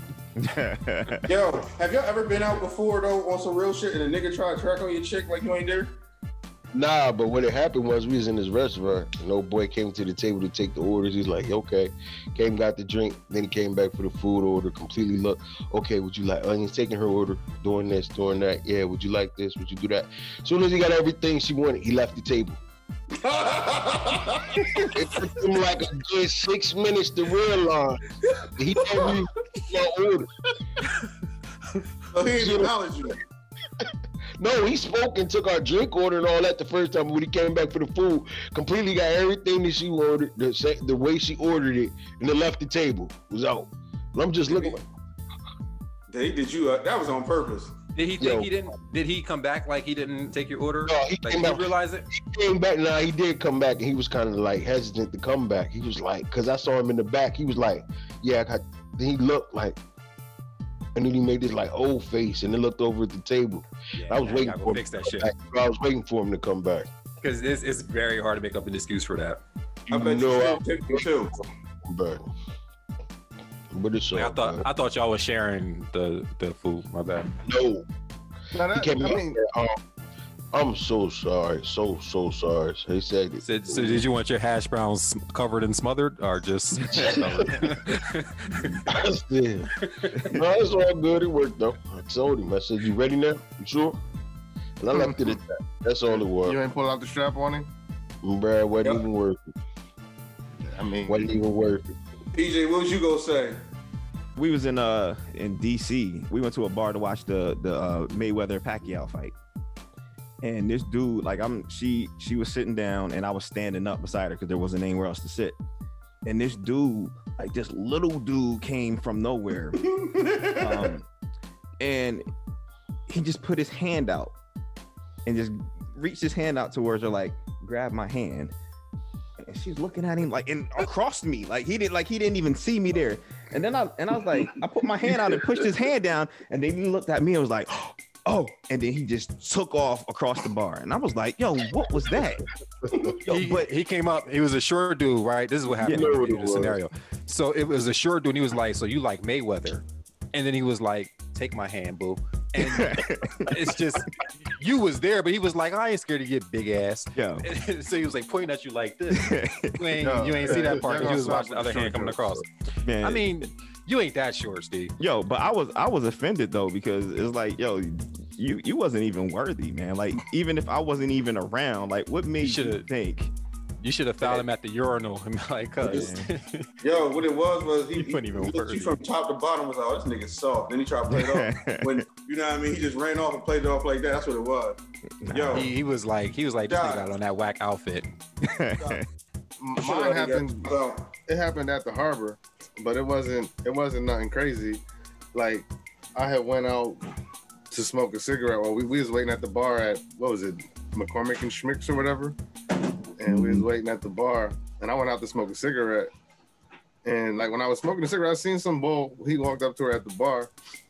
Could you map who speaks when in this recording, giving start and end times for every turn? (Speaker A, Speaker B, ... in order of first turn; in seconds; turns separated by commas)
Speaker A: 0.4-1.3, Speaker B: 1.2-6.0, Speaker C: 6.7-22.6, Speaker B: 23.1-24.7, Speaker C: 24.5-30.3, Speaker B: 28.9-29.1, Speaker B: 32.1-33.2, Speaker C: 32.3-32.8, Speaker C: 33.8-44.8, Speaker B: 46.1-47.8, Speaker D: 47.9-52.0, Speaker C: 48.2-48.5, Speaker C: 50.9-59.8, Speaker C: 60.9-66.9, Speaker D: 64.0-65.3, Speaker D: 67.2-69.4, Speaker B: 69.9-71.3, Speaker C: 69.9-71.1, Speaker C: 71.8-72.3, Speaker C: 73.7-74.7, Speaker D: 74.1-77.3, Speaker C: 77.5-77.8, Speaker E: 78.5-79.4, Speaker C: 78.7-79.8, Speaker C: 80.5-84.0, Speaker D: 83.4-88.8, Speaker C: 86.9-87.8, Speaker C: 88.9-94.0, Speaker D: 89.8-90.3, Speaker C: 94.8-96.6, Speaker E: 94.9-95.3, Speaker E: 96.1-97.7, Speaker C: 98.2-99.4, Speaker E: 100.6-101.2, Speaker C: 101.0-101.9, Speaker B: 102.3-103.6, Speaker A: 104.3-109.3, Speaker A: 110.4-115.5, Speaker A: 116.2-119.8, Speaker B: 119.8-120.9, Speaker A: 120.6-121.0, Speaker A: 121.8-122.3, Speaker A: 123.1-124.3, Speaker A: 125.2-128.5, Speaker A: 129.4-143.7, Speaker D: 143.2-162.5, Speaker A: 145.8-146.2, Speaker C: 145.8-146.8, Speaker A: 152.6-153.8, Speaker A: 157.1-157.4, Speaker A: 159.1-159.8, Speaker E: 160.0-162.4, Speaker A: 162.8-163.5, Speaker D: 163.0-164.9, Speaker A: 165.0-173.3, Speaker D: 172.4-172.9, Speaker D: 173.8-176.7, Speaker A: 175.8-176.3, Speaker B: 175.8-176.1, Speaker B: 176.8-185.7, Speaker D: 177.9-179.0, Speaker A: 181.1-182.0, Speaker A: 185.2-185.7, Speaker D: 185.5-188.1, Speaker B: 186.6-187.1, Speaker A: 188.4-189.1, Speaker E: 189.6-194.8, Speaker B: 189.8-191.1, Speaker E: 195.3-197.0, Speaker E: 197.7-202.4, Speaker E: 203.2-206.1, Speaker C: 203.3-203.7, Speaker E: 207.0-210.5